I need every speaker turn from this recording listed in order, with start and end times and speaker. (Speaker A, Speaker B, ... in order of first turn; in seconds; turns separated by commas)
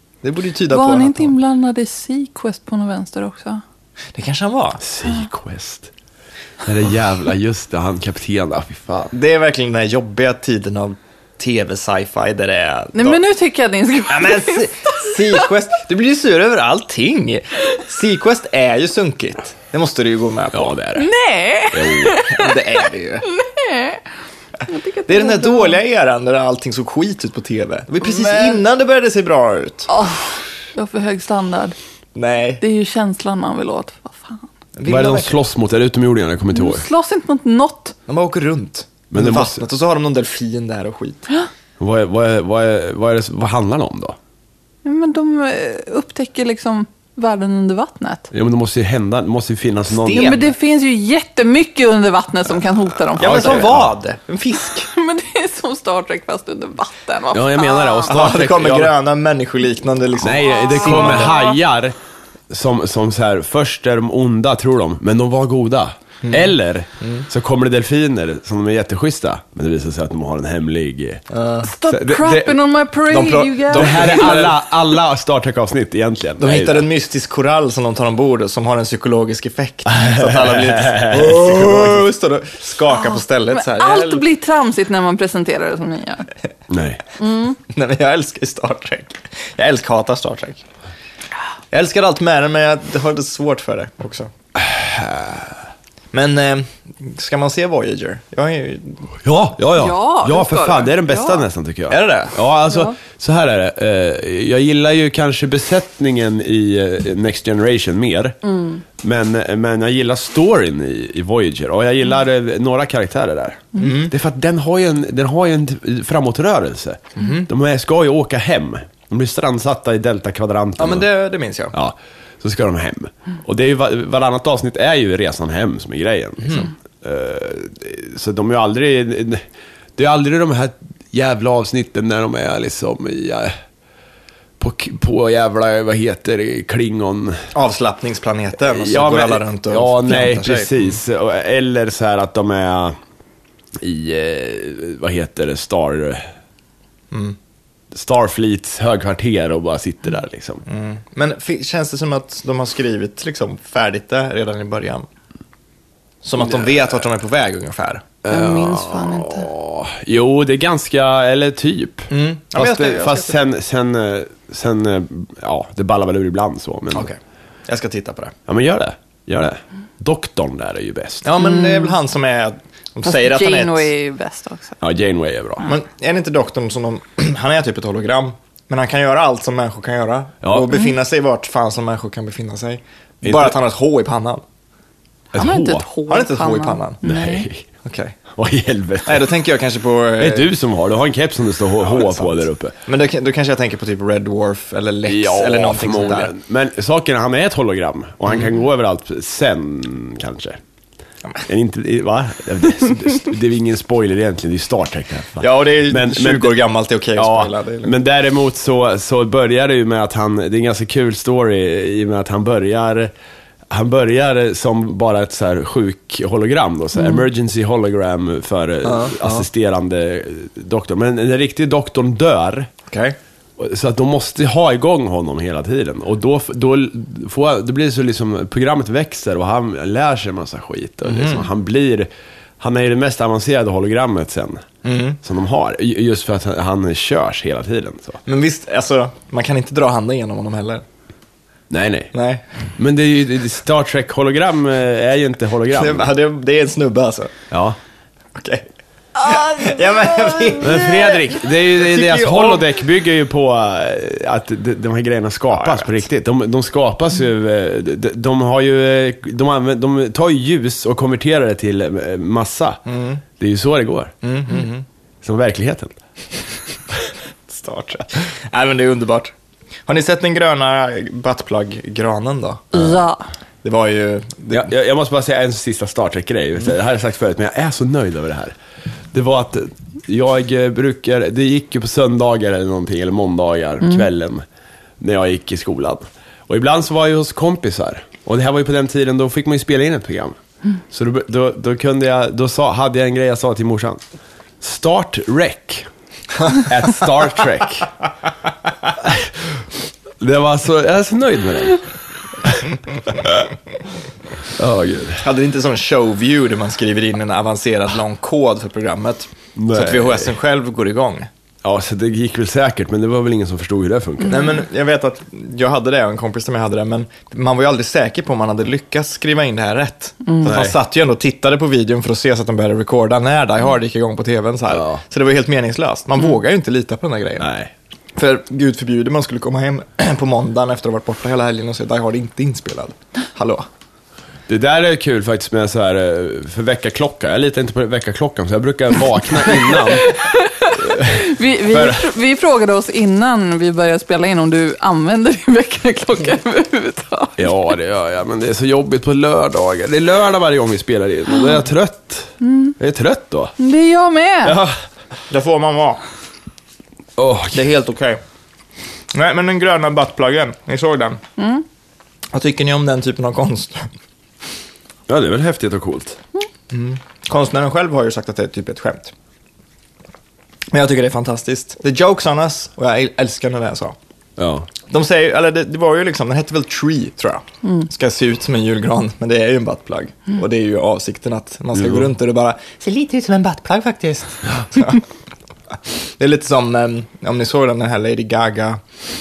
Speaker A: 0.2-1.3, Speaker B: 0.7-3.6, Speaker A: 4.1-4.8, Speaker C: 4.8-5.9, Speaker C: 6.6-9.1, Speaker A: 9.1-13.2, Speaker B: 12.9-15.4, Speaker A: 14.1-20.8, Speaker C: 20.5-21.1, Speaker B: 20.9-24.0, Speaker C: 21.7-22.2, Speaker A: 22.3-23.3, Speaker B: 24.6-25.8, Speaker A: 25.1-29.9, Speaker B: 28.0-28.6, Speaker B: 29.9-31.8, Speaker A: 32.1-32.6, Speaker B: 32.6-34.4, Speaker A: 34.8-35.4, Speaker C: 34.9-36.9, Speaker B: 36.5-37.9, Speaker A: 38.1-41.2, Speaker C: 39.1-39.6, Speaker C: 41.8-44.2, Speaker B: 44.8-48.3, Speaker C: 48.3-50.4, Speaker A: 49.9-50.5, Speaker B: 50.1-53.7, Speaker C: 53.2-53.9, Speaker A: 53.2-54.9, Speaker B: 54.7-58.1, Speaker C: 57.3-58.9, Speaker A: 58.1-61.4, Speaker C: 60.2-62.0, Speaker B: 60.5-61.6, Speaker C: 62.5-71.2, Speaker A: 66.2-67.2, Speaker A: 71.3-71.7, Speaker B: 71.6-74.4, Speaker C: 71.8-72.6, Speaker A: 73.1-74.6, Speaker C: 73.7-76.8, Speaker A: 76.4-84.2, Speaker C: 80.0-82.0, Speaker B: 82.9-86.3, Speaker C: 86.7-87.0, Speaker B: 87.2-87.6, Speaker A: 87.7-90.6, Speaker A: 91.7-94.3, Speaker C: 94.5-95.6, Speaker A: 96.1-99.1, Speaker C: 99.2-121.1, Speaker B: 99.7-101.5, Speaker A: 101.9-102.4, Speaker A: 113.8-114.1, Speaker A: 117.2-117.5, Speaker A: 120.8-121.7, Speaker C: 121.7-129.4, Speaker A: 126.4-126.7, Speaker C: 129.9-133.5, Speaker C: 134.6-137.4, Speaker A: 137.5-140.9, Speaker C: 138.6-143.0, Speaker C: 143.8-146.3, Speaker C: 147.9-150.6, Speaker A: 150.7-155.1, Speaker A: 156.2-158.1, Speaker C: 158.2-167.1, Speaker B: 158.3-159.5, Speaker A: 162.1-163.4, Speaker A: 166.9-168.3, Speaker C: 168.5-171.2, Speaker A: 171.2-173.9, Speaker B: 171.4-171.9, Speaker B: 173.0-174.8, Speaker C: 174.8-175.7, Speaker A: 175.6-184.4, Speaker C: 180.4-180.7, Speaker C: 183.2-183.5, Speaker C: 185.3-185.9, Speaker B: 185.3-187.5, Speaker A: 186.1-187.0, Speaker C: 187.0-187.7, Speaker A: 187.8-188.2, Speaker C: 188.3-189.3, Speaker A: 189.0-190.5, Speaker C: 190.2-192.7, Speaker A: 191.8-196.3, Speaker C: 195.1-200.6, Speaker C: 201.5-206.6, Speaker A: 205.4-207.9, Speaker C: 207.2-213.1, Speaker C: 213.7-222.7, Speaker A: 218.8-219.4, Speaker A: 222.9-223.2, Speaker C: 223.6-232.1, Speaker A: 231.1-231.5, Speaker C: 232.6-234.6, Speaker A: 234.8-235.2, Speaker C: 235.2-238.2, Speaker A: 238.2-240.8, Speaker C: 241.7-242.1, Speaker A: 242.1-242.4, Speaker C: 242.8-246.1, Speaker A: 245.7-247.3, Speaker C: 247.5-247.8, Speaker A: 248.3-248.7, Speaker A: 249.2-252.7, Speaker B: 249.2-250.6, Speaker C: 250.6-262.8, Speaker A: 255.5-256.0, Speaker A: 262.9-263.2, Speaker C: 263.4-264.1, Speaker A: 264.2-264.8, Speaker C: 265.2-266.0, Speaker A: 267.5-269.3, Speaker A: 269.9-273.0, Speaker B: 272.7-273.2, Speaker A: 273.6-274.7, Speaker C: 274.5-278.5, Speaker C: 279.1-284.4, Speaker C: 285.0-290.4, Speaker C: 290.9-294.0, Speaker C: 294.6-295.9, Speaker C: 296.5-297.9, Speaker C: 299.0-299.4, Speaker C: 300.2-301.8, Speaker C: 302.4-303.4, Speaker C: 304.4-305.2, Speaker A: 305.2-311.3, Speaker C: 309.6-310.3, Speaker C: 311.6-314.4, Speaker A: 314.3-327.5, Speaker C: 320.4-320.8, Speaker C: 324.7-325.0, Speaker C: 327.4-327.7, Speaker A: 328.1-333.6, Speaker C: 334.5-342.1, Speaker B: 340.0-347.5, Speaker C: 347.4-353.5, Speaker B: 352.4-352.8, Speaker B: 353.6-354.6, Speaker A: 355.3-356.0, Speaker C: 357.2-357.6, Speaker A: 357.5-358.2, Speaker A: 359.1-361.2, Speaker B: 361.4-361.6, Speaker A: 362.3-363.9, Speaker C: 365.1-366.2, Speaker A: 366.7-369.1, Speaker A: 370.7-373.9, Speaker C: 374.4-374.7, Speaker A: 374.9-385.0, Speaker C: 381.7-382.1, Speaker A: 386.2-388.8